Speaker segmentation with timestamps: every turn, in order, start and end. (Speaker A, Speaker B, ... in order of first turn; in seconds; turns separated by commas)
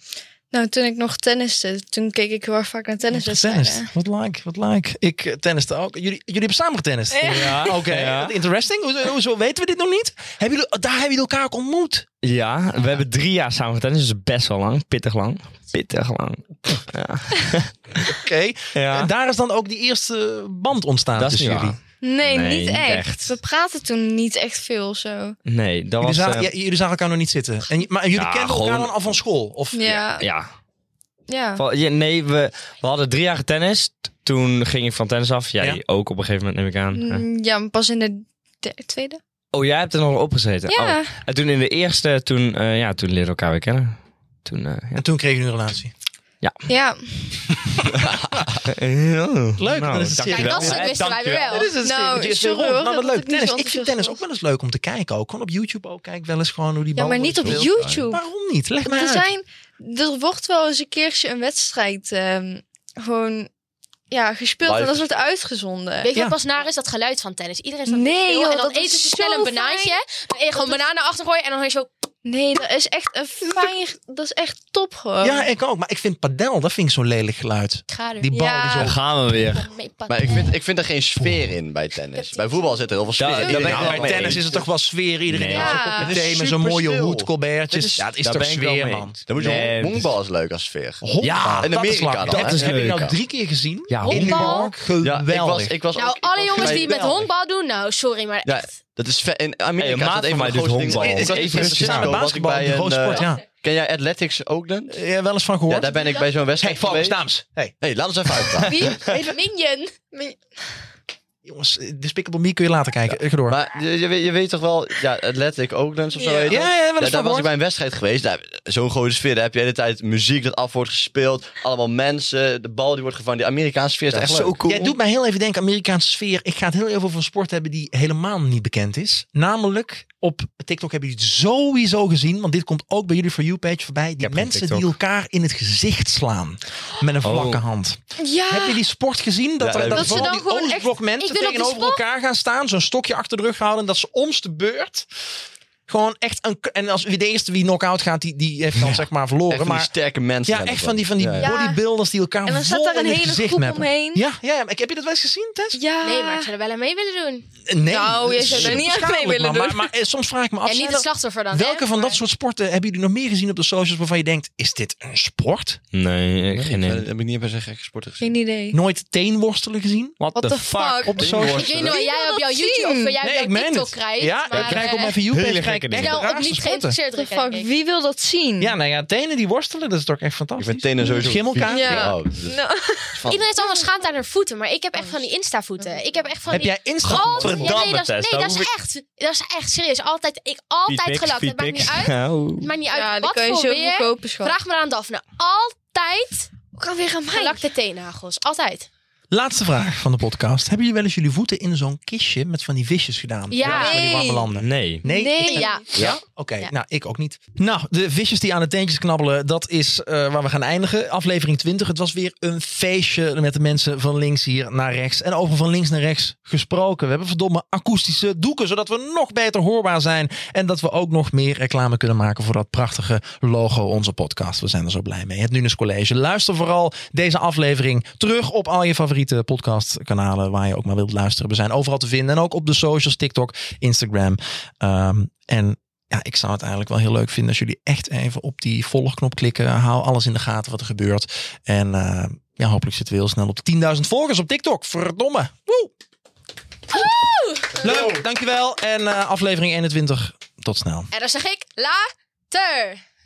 Speaker A: 0.5-3.9, Speaker B: 3.1-12.1, Speaker A: 7.1-7.8, Speaker C: 7.2-8.4, Speaker C: 12.2-18.1, Speaker B: 18.0-21.8, Speaker C: 18.7-19.1, Speaker C: 21.1-23.4, Speaker A: 22.0-25.4, Speaker C: 25.4-26.5, Speaker B: 26.0-30.0, Speaker C: 28.1-29.1, Speaker A: 29.7-30.3, Speaker C: 30.0-30.5, Speaker A: 31.3-31.6, Speaker C: 31.6-37.2, Speaker A: 36.9-39.2, Speaker C: 39.5-45.0, Speaker A: 40.7-41.1, Speaker B: 45.0-45.9, Speaker A: 46.7-47.6, Speaker C: 48.6-51.7, Speaker B: 49.6-59.3, Speaker D: 50.2-51.7, Speaker A: 51.8-54.2, Speaker A: 56.9-58.2, Speaker E: 57.4-58.0, Speaker A: 58.8-63.5, Speaker A: 64.1-66.1, Speaker E: 64.6-65.2, Speaker D: 66.0-71.9, Speaker A: 67.9-70.0, Speaker A: 70.5-70.8, Speaker A: 72.2-75.5, Speaker B: 75.2-79.0, Speaker D: 77.9-78.3, Speaker A: 78.3-78.9, Speaker C: 78.8-79.7, Speaker D: 79.5-80.5, Speaker E: 80.1-84.7, Speaker B: 81.2-81.5, Speaker D: 82.1-83.0, Speaker C: 83.2-84.5, Speaker B: 83.4-89.7, Speaker C: 85.3-85.8, Speaker A: 85.5-86.2, Speaker E: 85.9-93.2, Speaker C: 88.0-90.1, Speaker B: 91.0-95.8, Speaker C: 91.2-93.1, Speaker C: 93.9-94.6, Speaker D: 94.1-94.7, Speaker E: 95.0-97.2, Speaker D: 95.9-98.8, Speaker B: 96.5-97.3, Speaker E: 98.4-105.0, Speaker C: 99.8-102.2, Speaker B: 100.9-103.4, Speaker B: 104.9-107.7, Speaker E: 105.7-107.2, Speaker D: 105.8-106.3, Speaker E: 107.8-109.0, Speaker A: 108.6-109.2, Speaker B: 109.0-109.3, Speaker D: 109.1-110.0, Speaker A: 110.0-110.4, Speaker B: 111.4-113.6, Speaker E: 113.1-124.6, Speaker A: 116.2-116.7, Speaker B: 116.5-117.5, Speaker C: 124.1-125.0, Speaker B: 124.6-145.1, Speaker C: 134.2-134.9, Speaker C: 137.2-137.6, Speaker A: 138.2-138.8, Speaker E: 139.6-140.3, Speaker D: 139.9-142.0, Speaker B: 145.9-149.9, Speaker E: 149.5-151.5, Speaker B: 150.4-155.8, Speaker A: 151.4-151.8, Speaker A: 152.4-154.2, Speaker A: 155.7-156.5, Speaker D: 156.0-157.5, Speaker B: 157.7-165.8, Speaker A: 157.9-159.9, Speaker E: 158.5-158.8, Speaker D: 160.6-162.2, Speaker C: 165.9-167.0, Speaker E: 166.5-168.3, Speaker A: 168.2-168.8, Speaker B: 168.7-171.7, Speaker C: 170.2-171.1, Speaker A: 170.3-173.2, Speaker E: 171.2-172.0, Speaker D: 171.5-175.2, Speaker B: 173.2-177.0, Speaker C: 175.3-176.2, Speaker D: 175.9-177.7, Speaker A: 177.1-178.8, Speaker B: 178.6-182.1, Speaker E: 180.6-182.6, Speaker A: 181.0-183.8, Speaker E: 183.1-183.4, Speaker D: 183.3-196.5, Speaker B: 186.5-187.8, Speaker C: 187.0-188.7, Speaker C: 190.9-192.7, Speaker A: 192.8-194.5, Speaker A: 196.7-197.6, Speaker D: 197.3-198.9, Speaker B: 199.3-245.9, Speaker D: 203.5-204.1, Speaker A: 203.6-204.5, Speaker C: 204.5-205.0, Speaker A: 205.0-205.9, Speaker D: 205.1-206.0, Speaker E: 205.9-206.2, Speaker D: 246.9-248.1, Speaker B: 247.8-251.1, Speaker D: 251.1-253.0